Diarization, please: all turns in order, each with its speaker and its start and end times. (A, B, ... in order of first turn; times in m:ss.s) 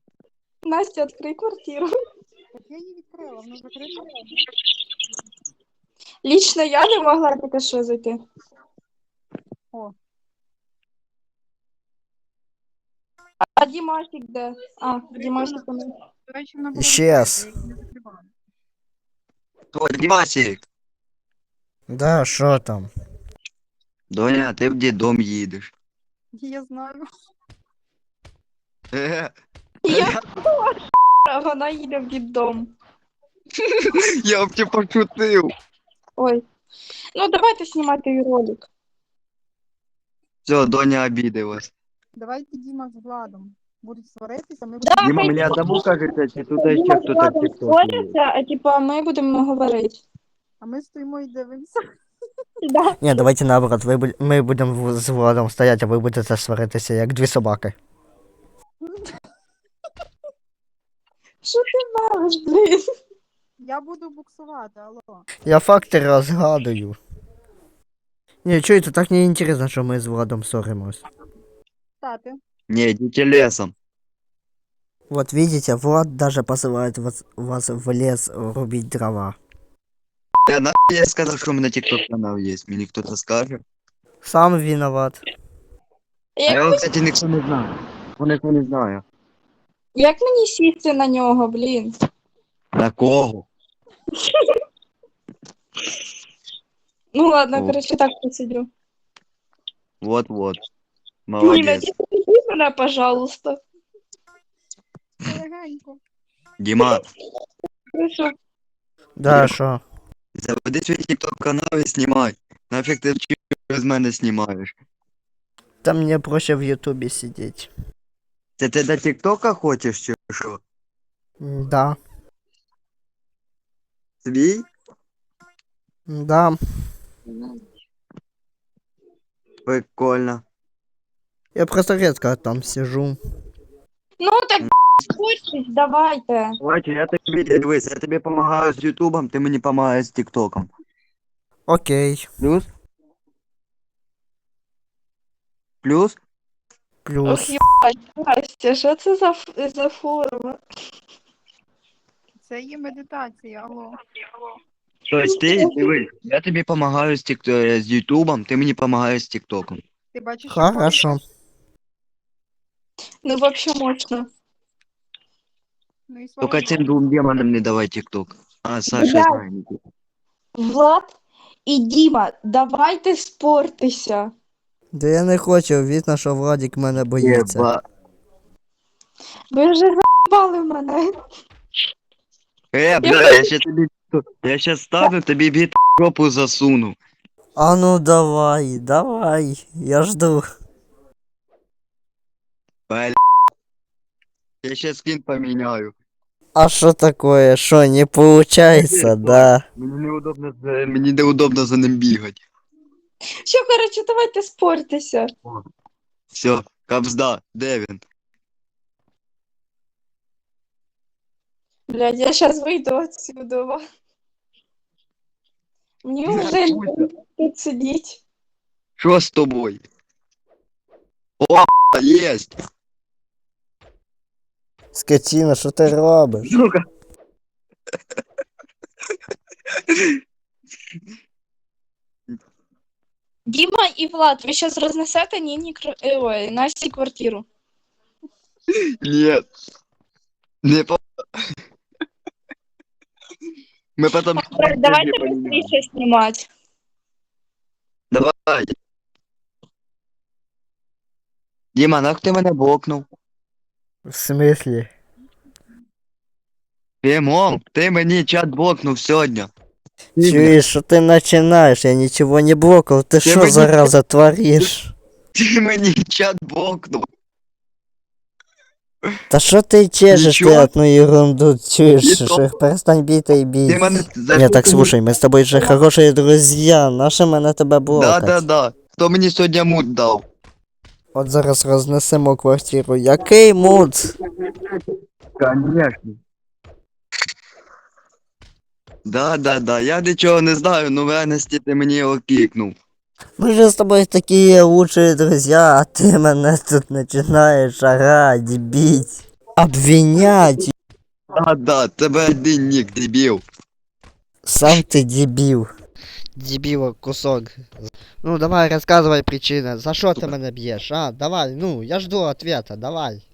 0:00.6-0:01.9 A
0:02.5-0:04.3 B
0:06.2-0:08.2 A
0:13.4-0:15.9 A
0:15.2-0:15.7 B
0:16.3-0:18.3 B
0:16.8-0:17.5 C
0:19.7-0:20.6 D
0:21.9-0:22.9 C
0:24.1-0:25.7 D
0:26.4-0:27.0 B
0:28.9-0:29.3 D
0:29.8-0:32.7 A
0:29.9-0:30.2 D
0:33.6-0:33.9 A
0:33.9-0:35.5 D
0:36.2-0:36.4 A
0:37.2-0:38.7 A
0:40.5-0:41.7 D
0:42.2-0:45.8 B
0:44.8-0:45.8 A
0:45.0-0:48.1 D
0:46.6-0:50.0 A
0:50.6-0:51.8 B
0:52.6-0:53.0 A
0:53.0-0:57.8 C
0:58.8-0:59.2 B
1:01.4-1:02.8 A
1:03.6-1:05.3 B
1:05.5-1:07.0 C
1:08.4-1:11.0 C
1:12.0-1:12.4 B
1:12.7-1:13.7 D
1:15.1-1:19.4 C
1:20.5-1:23.6 D
1:24.2-1:25.2 C
1:26.4-1:26.9 A
1:26.5-1:29.0 D
1:30.0-1:31.9 A
1:32.8-1:33.5 D
1:34.2-1:34.5 A
1:37.1-1:38.7 A
1:40.0-1:40.6 D
1:41.3-1:41.9 D
1:41.4-1:43.6 A
1:45.2-1:46.0 B
1:46.6-1:47.0 D
1:47.9-1:48.3 A
1:49.2-1:49.8 C
1:49.3-1:49.5 D
1:50.4-1:54.7 D
1:55.8-1:57.7 C
1:58.6-2:00.6 D
2:01.4-2:02.0 C
2:04.2-2:04.6 D
2:06.1-2:06.6 C
2:09.7-2:10.4 D
2:11.6-2:13.2 C
2:14.2-2:16.6 A
2:16.6-2:20.7 D
2:21.7-2:22.3 C
2:22.4-2:22.7 D
2:25.8-2:26.2 D
2:27.0-2:27.6 C
2:27.2-2:30.6 A
2:32.4-2:34.0 B
2:35.1-2:39.8 D
2:35.2-2:35.9 A
2:40.1-2:41.1 B
2:40.5-2:41.2 C
2:43.2-2:44.3 A
2:46.1-2:46.9 B
2:46.4-2:49.8 D
2:48.9-2:49.4 A
2:50.6-2:51.1 A
2:51.7-2:54.3 A
2:54.9-2:57.7 C
2:57.2-2:57.8 D
2:59.5-3:01.1 A
3:02.7-3:07.0 D
3:03.0-3:03.5 A
3:07.6-3:10.4 C
3:12.9-3:13.2 D
3:14.6-3:15.9 D
3:16.6-3:19.6 C
3:18.7-3:22.4 D
3:23.5-3:25.3 A
3:26.3-3:28.0 D
3:31.9-3:33.8 A
3:36.0-3:38.2 A
3:36.3-3:37.1 D
3:39.0-3:39.8 D
3:41.4-3:42.5 D
3:45.0-3:46.5 C
3:46.4-3:46.8 D
3:49.9-3:50.2 D
3:53.5-3:57.5 A
3:58.7-3:59.4 D
4:00.6-4:01.0 D
4:04.0-4:05.7 D
4:04.4-4:06.5 A
4:08.1-4:08.7 D
4:11.8-4:13.0 D
4:14.1-4:14.9 C
4:17.0-4:19.5 D
4:20.2-4:24.9 C
4:20.2-4:20.6 D
4:23.2-4:23.9 D
4:25.4-4:27.1 D
4:29.3-4:38.4 C
4:30.1-4:30.7 D
4:32.0-4:32.5 D
4:33.7-4:34.9 D
4:37.9-4:40.2 D
4:41.1-4:44.1 C
4:43.7-4:44.8 D
4:45.4-4:46.2 D
4:49.1-4:52.8 D
4:53.4-5:00.7 C
5:01.3-5:03.4 D
5:04.5-5:05.7 C
5:06.4-5:13.2 C